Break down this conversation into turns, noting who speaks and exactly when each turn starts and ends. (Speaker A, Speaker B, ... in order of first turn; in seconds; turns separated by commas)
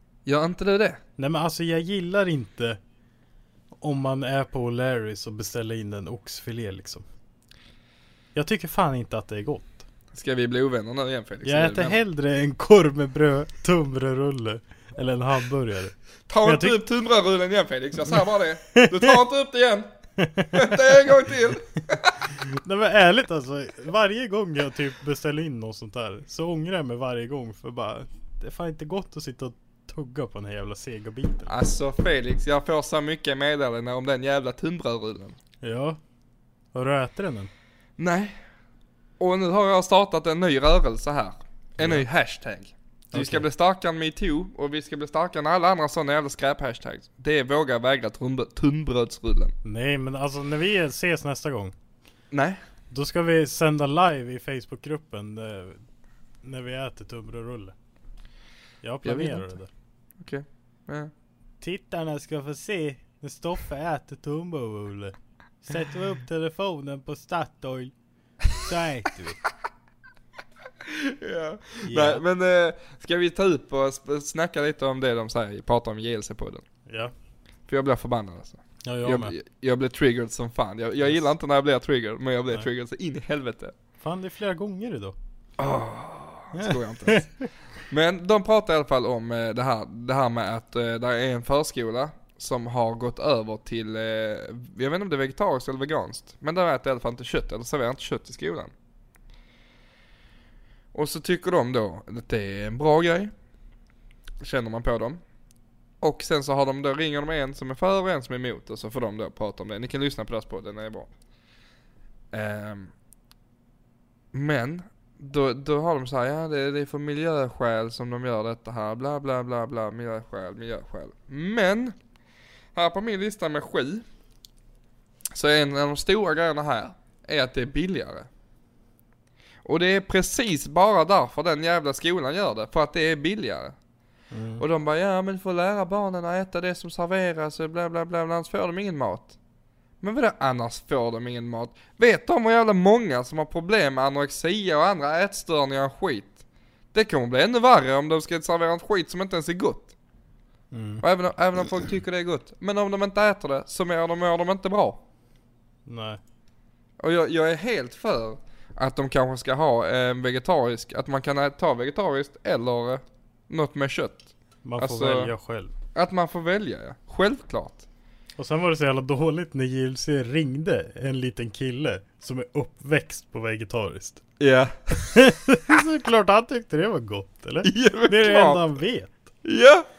Speaker A: 0.3-1.0, Speaker B: 1.2-2.8, Speaker B: 3.8-7.0, Speaker B: 8.3-9.8, Speaker A: 10.1-12.0, Speaker B: 11.4-16.8, Speaker A: 16.3-19.9, Speaker B: 18.8-19.2, Speaker B: 20.2-20.8, Speaker A: 20.5-22.2, Speaker B: 22.6-31.5, Speaker A: 31.5-35.4, Speaker B: 35.6-36.0, Speaker B: 36.7-37.5, Speaker A: 38.0-38.4, Speaker A: 39.2-49.5, Speaker B: 41.8-42.1, Speaker B: 43.1-43.5, Speaker B: 49.6-51.7, Speaker A: 52.3-52.6, Speaker B: 52.9-55.8, Speaker B: 56.4-57.8, Speaker B: 58.8-59.7, Speaker A: 59.0-59.5, Speaker A: 60.2-61.1, Speaker B: 61.6-67.9, Speaker B: 68.5-69.4, Speaker A: 70.8-76.6, Speaker B: 71.8-72.2, Speaker B: 76.9-77.1, Speaker A: 77.7-83.7, Speaker B: 78.8-79.3, Speaker B: 84.0-85.2, Speaker A: 85.6-98.7, Speaker B: 86.5-87.5, Speaker A: 100.9-103.3, Speaker A: 104.4-105.2, Speaker A: 106.0-111.1, Speaker A: 112.3-112.9, Speaker A: 114.3-122.0, Speaker A: 122.8-124.0, Speaker A: 125.3-128.3, Speaker A: 129.7-133.8, Speaker B: 134.3-134.6, Speaker A: 134.6-139.4, Speaker A: 140.0-146.4, Speaker A: 146.9-149.9, Speaker B: 150.7-151.0, Speaker A: 151.0-155.0, Speaker B: 155.9-156.2, Speaker A: 157.0-165.3, Speaker B: 164.6-165.7, Speaker A: 165.9-167.8, Speaker B: 168.4-174.2, Speaker A: 174.4-175.3, Speaker B: 175.1-179.2, Speaker A: 177.6-178.7, Speaker A: 179.4-179.9